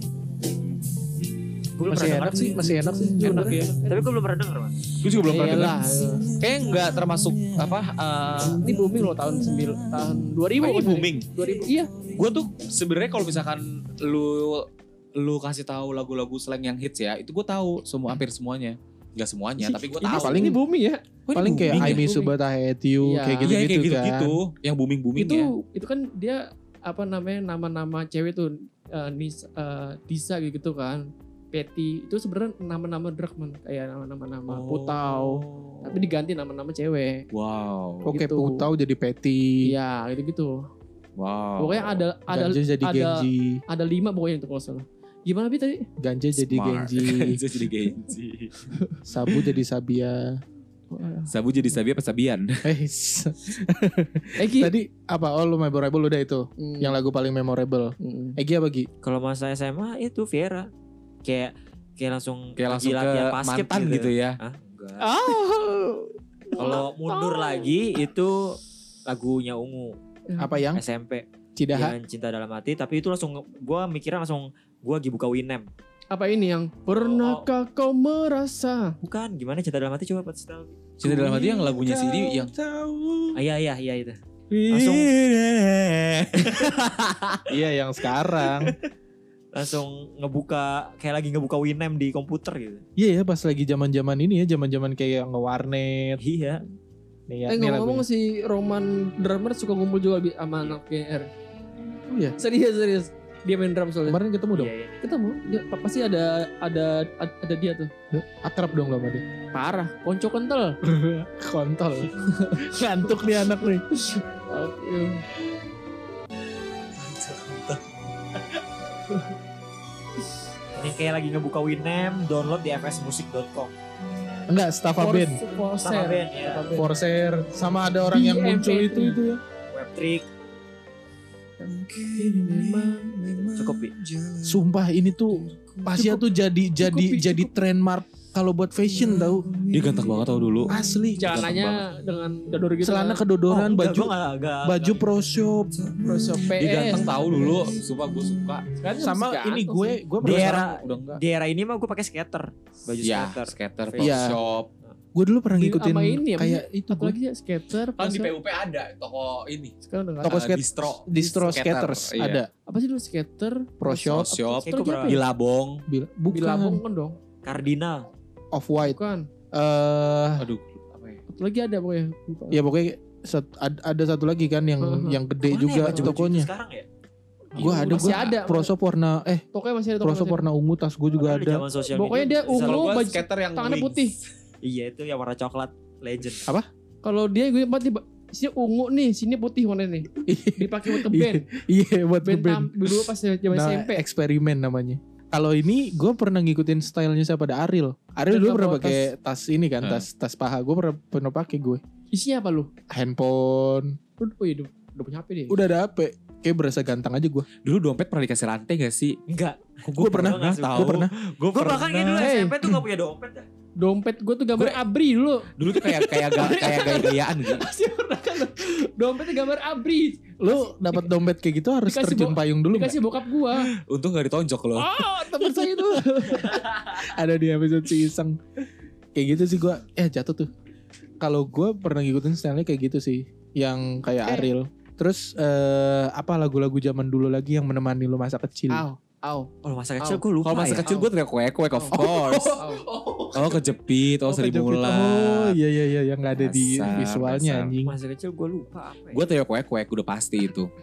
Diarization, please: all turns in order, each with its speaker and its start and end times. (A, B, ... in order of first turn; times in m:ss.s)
0:01.8-0:02.7 A
0:01.9-0:03.7 B
0:03.2-0:03.8 C
0:03.2-0:03.7 D
0:03.2-0:04.8 A
0:05.0-0:08.7 C
0:05.2-0:06.3 D
0:08.5-0:11.9 D
0:10.6-0:11.3 C
0:12.0-0:20.5 C
0:19.6-0:21.0 D
0:20.0-0:20.6 B
0:21.3-0:22.1 C
0:21.3-0:24.4 B
0:21.6-0:22.4 D
0:23.0-0:23.5 D
0:23.4-0:25.5 C
0:25.2-0:37.2 D
0:34.5-0:36.1 C
0:37.3-0:38.1 C
0:38.1-0:39.7 B
0:38.1-0:38.7 D
0:39.6-0:40.6 D
0:41.2-0:42.0 C
0:41.6-0:45.9 D
0:42.3-0:43.6 B
0:46.0-0:47.4 B
0:46.4-0:48.7 C
0:49.1-0:50.3 B
0:50.9-0:51.3 D
0:51.3-0:52.6 C
0:52.6-0:58.9 B
0:54.4-0:54.7 D
0:56.6-0:57.0 D
0:58.0-0:58.4 D
0:59.0-1:00.7 A
1:01.2-1:05.1 A
1:02.6-1:04.4 C
1:05.0-1:07.7 D
1:06.6-1:10.0 A
1:10.3-1:10.6 D
1:10.4-1:10.8 B
1:10.7-1:15.7 A
1:11.6-1:12.0 B
1:16.1-1:19.0 D
1:16.9-1:17.5 A
1:19.0-1:20.8 A
1:21.0-1:22.5 C
1:21.0-1:23.4 B
1:23.4-1:24.2 A
1:24.5-1:25.0 B
1:24.7-1:25.1 A
1:24.8-1:27.4 C
1:26.4-1:26.8 A
1:27.5-1:28.8 B
1:29.5-1:32.8 A
1:33.0-1:36.2 B
1:36.2-1:36.6 A
1:37.3-1:38.0 B
1:37.5-1:41.3 D
1:42.1-1:42.4 B
1:42.4-1:44.2 D
1:44.0-1:44.7 B
1:44.5-1:45.0 A
1:45.0-1:47.9 D
1:48.1-1:49.2 B
1:49.5-1:50.8 D
1:50.8-1:53.8 B
1:53.9-1:55.2 D
1:57.0-1:57.8 C
2:00.8-2:03.7 A
2:04.5-2:05.4 B
2:05.0-2:06.9 D
2:05.8-2:06.7 A
2:06.8-2:09.4 B
2:08.1-2:09.2 D
2:09.7-2:10.3 A
2:12.1-2:13.2 D
2:13.3-2:13.9 A
2:14.4-2:19.6 B
2:15.9-2:16.2 D
2:16.8-2:17.6 D
2:19.7-2:21.9 C
2:20.7-2:21.5 B
2:21.2-2:23.3 D
2:22.8-2:25.7 B
2:23.5-2:25.3 A
2:26.0-2:27.6 D
2:26.5-2:28.7 C
2:28.8-2:30.0 D
2:29.0-2:30.9 B
2:30.2-2:31.2 C
2:30.2-2:35.0 A
2:33.0-2:34.7 C
2:34.0-2:34.4 B
2:35.1-2:37.2 B
2:35.6-2:38.3 D
2:38.0-2:42.4 C
2:39.8-2:40.4 D
2:40.2-2:42.5 B
2:41.1-2:41.6 D
2:42.7-2:45.2 D
2:43.8-2:44.3 B
2:44.1-2:45.8 C
2:44.7-2:45.2 A
2:45.9-2:46.8 B
2:46.3-2:47.2 D
2:47.4-2:48.1 A
2:48.5-2:49.0 B
2:48.8-2:49.3 D
2:49.5-2:50.5 B
2:50.4-2:51.2 C
2:51.3-2:52.6 D
2:52.5-2:56.5 B
2:54.8-2:55.2 D
2:55.5-2:56.9 A
2:55.5-2:56.2 C
2:57.5-2:58.7 D
2:57.6-2:59.4 B
2:57.6-2:58.2 C
2:59.5-3:00.4 D
3:00.0-3:01.6 B
3:01.1-3:03.0 A
3:01.9-3:04.2 D
3:02.5-3:04.2 C
3:04.6-3:06.5 A
3:07.0-3:11.4 D
3:10.3-3:21.8 B
3:12.2-3:14.0 D
3:18.3-3:19.1 D
3:22.1-3:22.7 D
3:22.9-3:24.0 B
3:24.2-3:25.6 D
3:25.5-3:27.5 B
3:27.6-3:29.2 C
3:29.3-3:33.5 A
3:29.8-3:32.7 C
3:30.0-3:31.1 B
3:32.2-3:32.6 D
3:33.8-3:41.0 D
3:35.6-3:37.6 C
3:40.4-3:43.0 B
3:41.9-3:43.7 D
3:43.6-3:45.0 C
3:44.8-3:46.6 D
3:45.4-3:48.4 B
3:49.2-3:50.5 B
3:51.2-3:58.9 B
3:58.7-3:59.5 D
3:59.6-4:01.0 A
4:00.4-4:02.7 C
4:01.7-4:02.0 D
4:02.0-4:03.7 B
4:02.6-4:02.8 D
4:03.3-4:05.6 C
4:04.2-4:08.0 B
4:06.4-4:07.7 C
4:07.8-4:09.2 A
4:09.1-4:10.7 C